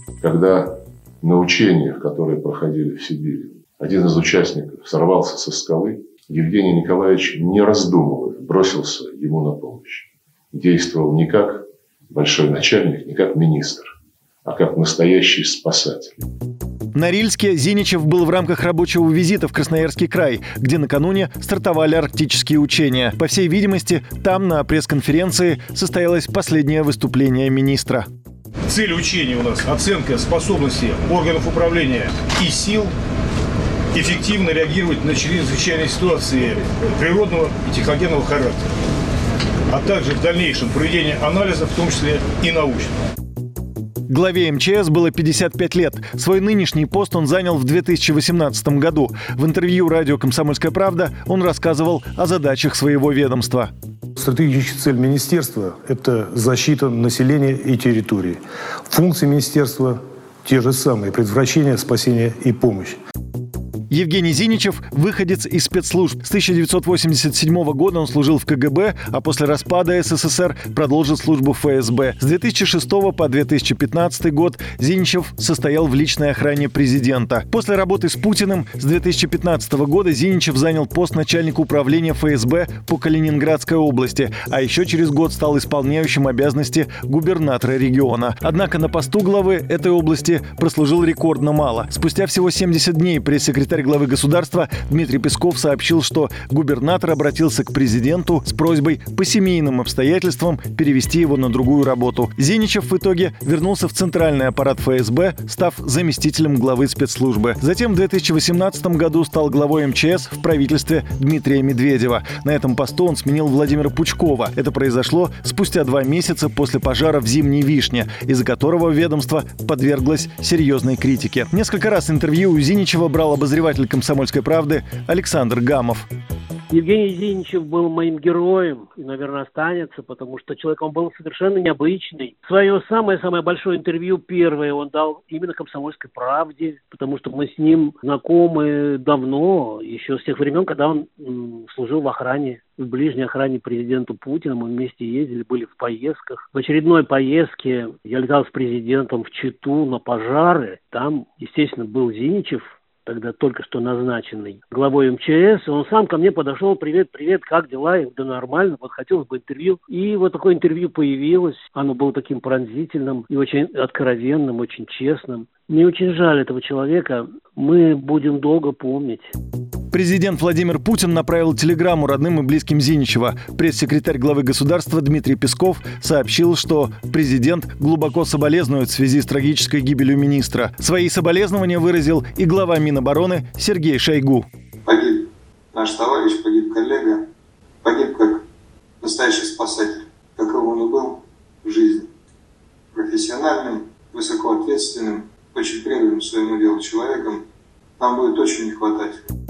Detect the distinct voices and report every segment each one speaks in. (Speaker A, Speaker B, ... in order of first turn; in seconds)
Speaker A: 0.2-0.7, 1.2-13.9, 14.4-16.2
Speaker B: 16.9-28.1, 44.1-53.7, 63.9-126.1, 169.9-184.5
Speaker C: 28.7-32.9, 33.9-38.6, 39.7-42.9
Speaker D: 54.2-63.0
Speaker E: 126.7-169.3
Speaker F: 184.9-187.3, 187.8-188.4, 189.0-192.1, 192.9-197.4, 198.0-199.2